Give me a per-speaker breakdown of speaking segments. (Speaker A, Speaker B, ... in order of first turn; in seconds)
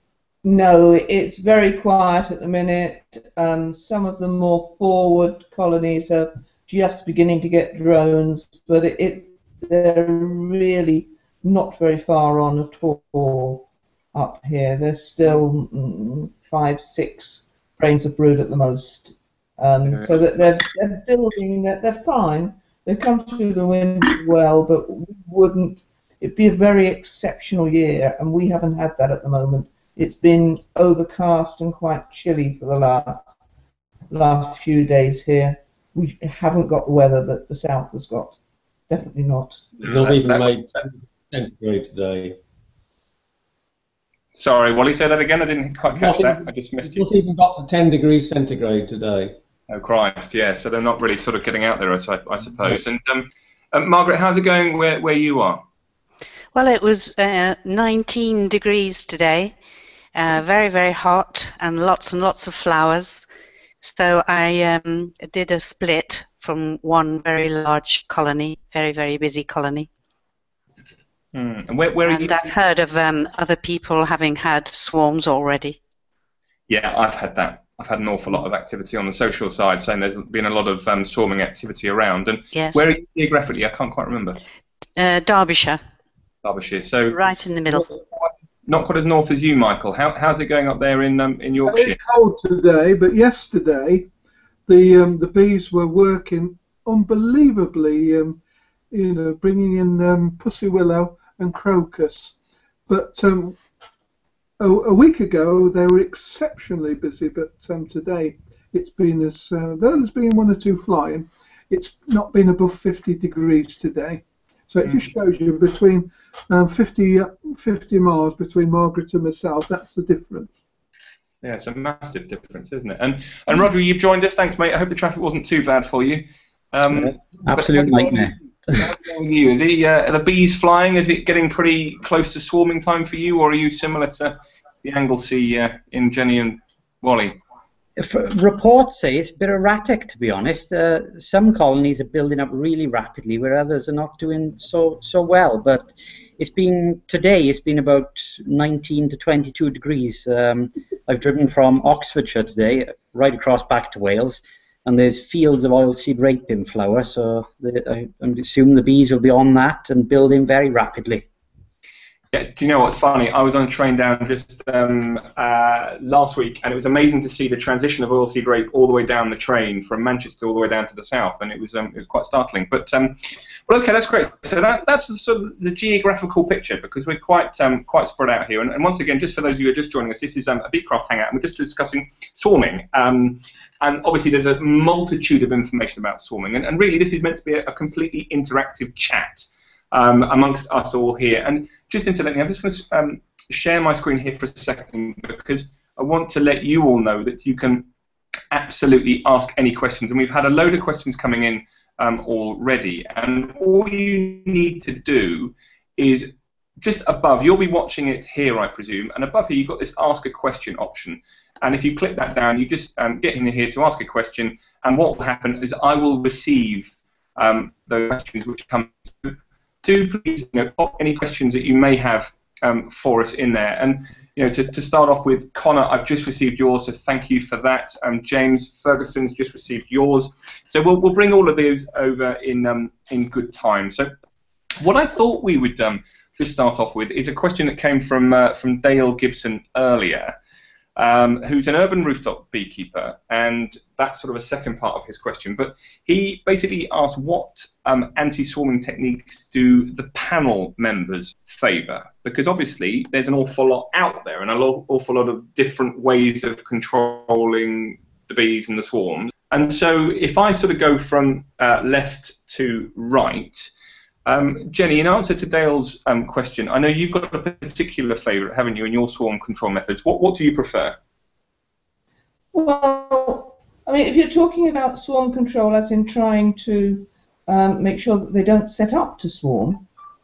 Speaker A: 0.4-33.3, 34.1-38.4, 38.9-39.8, 272.5-279.9
Speaker B: 39.8-42.4, 45.9-49.4
Speaker C: 39.8-40.6, 44.4-47.1, 49.7-55.6, 71.3-72.4, 76.7-84.4, 86.4-87.2, 88.7-92.0, 121.4-137.4, 162.3-173.2, 173.7-197.9, 198.5-234.1, 234.8-240.3, 241.0-263.7, 264.3-271.0
Speaker D: 56.5-59.5, 60.1-63.3, 63.8-69.9, 72.1-75.8, 82.5-82.8, 85.0-85.8, 87.1-87.9
Speaker E: 91.7-94.1, 94.7-98.4, 98.9-102.4, 102.9-103.6, 104.6-120.5
Speaker F: 126.9-128.9, 138.0-161.3